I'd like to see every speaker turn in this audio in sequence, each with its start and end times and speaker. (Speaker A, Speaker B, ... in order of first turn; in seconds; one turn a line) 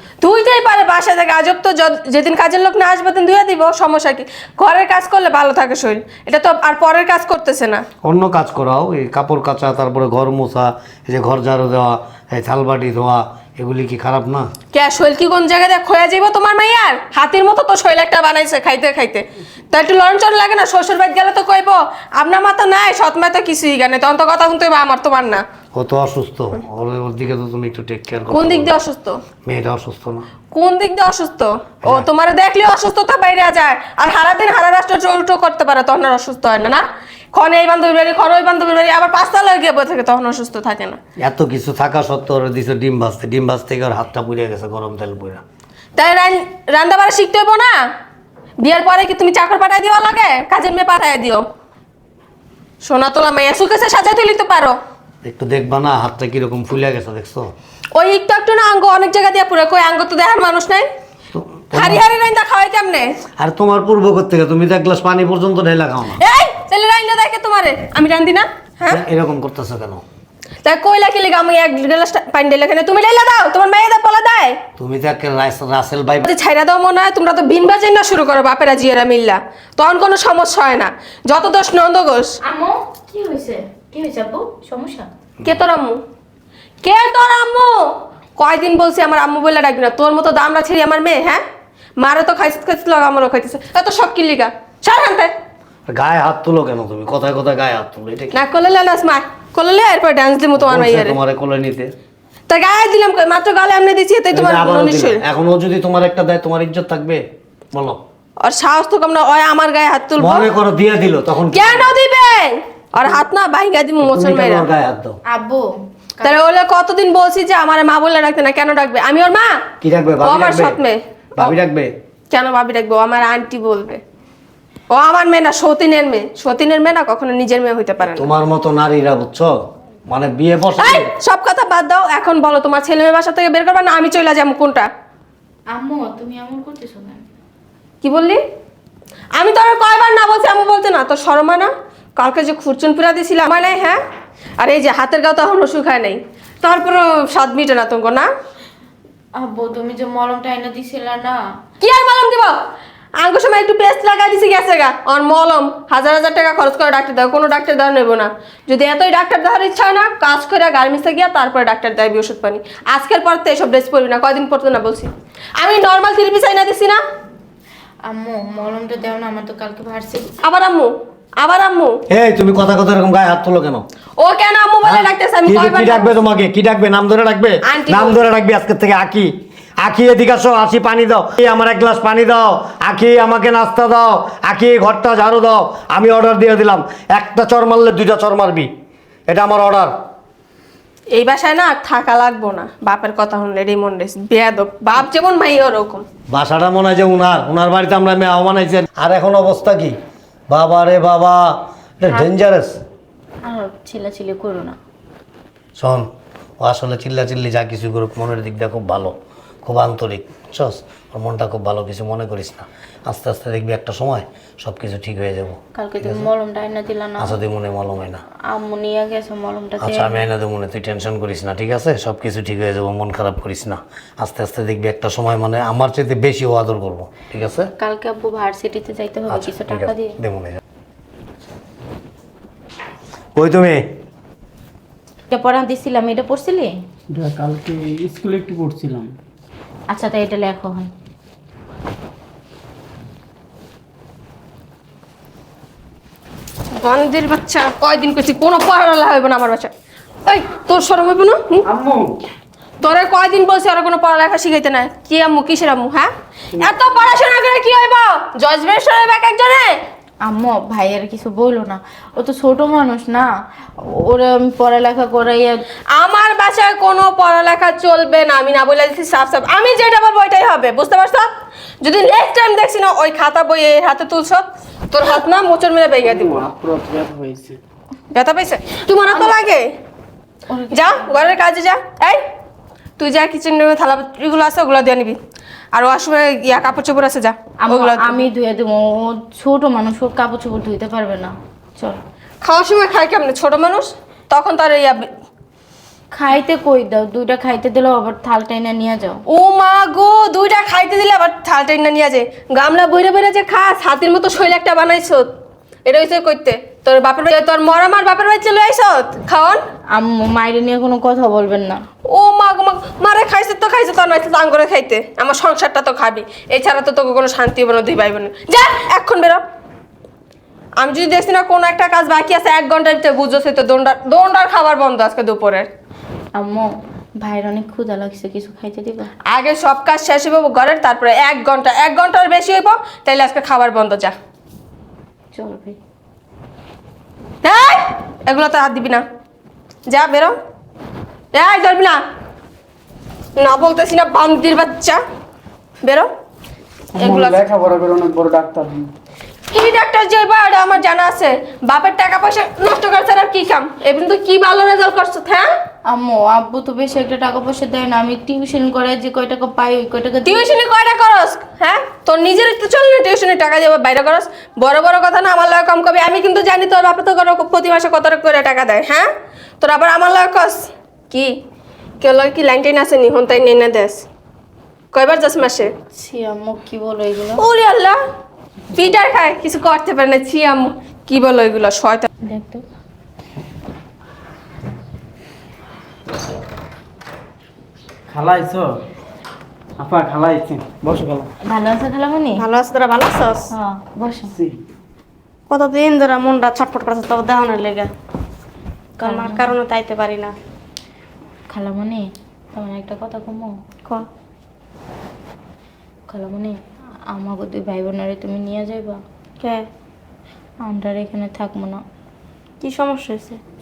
Speaker A: 0.2-7.8
Speaker B: 8.0-14.5
Speaker A: 14.7-25.4
Speaker B: 25.7-28.7
Speaker A: 28.3-29.2
Speaker B: 29.4-30.3
Speaker A: 30.5-41.0
Speaker B: 41.2-45.4
Speaker A: 46.0-47.8
Speaker A: 48.6-51.5
Speaker A: 52.8-54.8
Speaker B: 55.2-57.5
Speaker A: 57.9-60.9
Speaker B: 61.3-62.0
Speaker A: 61.7-63.1
Speaker B: 63.4-66.2
Speaker A: 66.1-69.0
Speaker B: 68.9-70.0
Speaker A: 70.6-74.6
Speaker B: 74.8-76.3
Speaker A: 76.2-82.3
Speaker C: 82.4-85.1
Speaker A: 85.4-86.0
Speaker A: 86.8-91.4
Speaker A: 92.0-95.3
Speaker B: 95.9-98.4
Speaker A: 98.3-101.2
Speaker B: 100.5-101.9
Speaker A: 102.5-105.2
Speaker B: 104.3-108.0
Speaker A: 108.4-110.5
Speaker B: 110.2-111.9
Speaker A: 111.5-114.7
Speaker B: 114.0-115.2
Speaker C: 115.3-115.7
Speaker A: 116.2-119.6
Speaker B: 119.8-120.8
Speaker A: 120.2-121.5
Speaker B: 121.4-121.9
Speaker A: 122.3-124.0
Speaker A: 124.9-128.3
Speaker B: 128.0-129.5
Speaker B: 130.1-131.1
Speaker A: 130.8-134.9
Speaker C: 135.7-137.2
Speaker A: 138.0-138.4
Speaker A: 139.4-144.0
Speaker A: 144.6-148.3
Speaker C: 149.4-151.4
Speaker A: 151.8-152.6
Speaker A: 153.2-167.0
Speaker C: 168.1-170.3
Speaker A: 170.4-172.0
Speaker B: 172.1-173.8
Speaker A: 174.2-176.2
Speaker B: 174.8-188.7
Speaker A: 177.6-178.2
Speaker B: 189.3-189.9
Speaker A: 191.1-196.0
Speaker B: 196.3-199.9
Speaker B: 200.5-201.4
Speaker B: 202.0-202.8
Speaker C: 203.4-204.8
Speaker B: 205.8-206.1
Speaker B: 206.6-209.1
Speaker B: 209.7-216.3
Speaker C: 215.7-217.4
Speaker B: 217.2-218.2
Speaker C: 218.5-220.2
Speaker B: 219.8-227.7
Speaker C: 227.8-230.2
Speaker B: 229.3-230.6
Speaker B: 233.3-233.8
Speaker C: 235.3-236.7
Speaker D: 237.1-239.1
Speaker C: 239.9-240.9
Speaker A: 246.7-249.7
Speaker A: 250.2-251.6
Speaker D: 251.6-252.1
Speaker A: 252.8-259.8
Speaker C: 260.2-263.3
Speaker C: 263.8-265.6
Speaker A: 265.9-271.3
Speaker A: 271.8-276.5
Speaker D: 276.0-277.6
Speaker A: 278.1-279.6
Speaker C: 280.5-281.3
Speaker A: 280.7-282.2
Speaker A: 283.0-285.2
Speaker A: 285.7-288.3
Speaker C: 287.6-292.0
Speaker A: 292.4-295.1
Speaker C: 296.1-299.2
Speaker A: 299.3-305.3
Speaker A: 305.9-309.6
Speaker C: 309.9-311.8
Speaker A: 312.1-319.4
Speaker A: 320.8-325.7
Speaker C: 326.4-326.7
Speaker C: 327.2-329.1
Speaker A: 329.3-334.1
Speaker C: 335.3-335.8
Speaker A: 337.4-339.0
Speaker A: 339.9-340.3
Speaker A: 341.3-342.0
Speaker A: 343.4-345.0
Speaker A: 345.8-346.1
Speaker D: 346.9-348.9
Speaker A: 347.0-347.4
Speaker A: 349.5-355.5
Speaker C: 355.9-360.6
Speaker A: 360.2-369.1
Speaker A: 369.6-371.3
Speaker A: 372.0-374.0
Speaker A: 374.9-375.7
Speaker C: 375.9-377.4
Speaker A: 377.4-378.0
Speaker A: 378.7-382.1
Speaker C: 382.2-382.6
Speaker D: 388.1-388.7
Speaker D: 389.8-391.3
Speaker C: 391.4-392.4
Speaker E: 392.4-393.5
Speaker C: 393.5-394.3
Speaker D: 394.3-394.6
Speaker E: 395.5-397.9
Speaker E: 399.0-400.3
Speaker C: 399.0-399.5
Speaker C: 401.5-403.5
Speaker C: 406.1-406.5
Speaker C: 407.1-409.0
Speaker C: 410.6-411.8
Speaker E: 412.6-413.4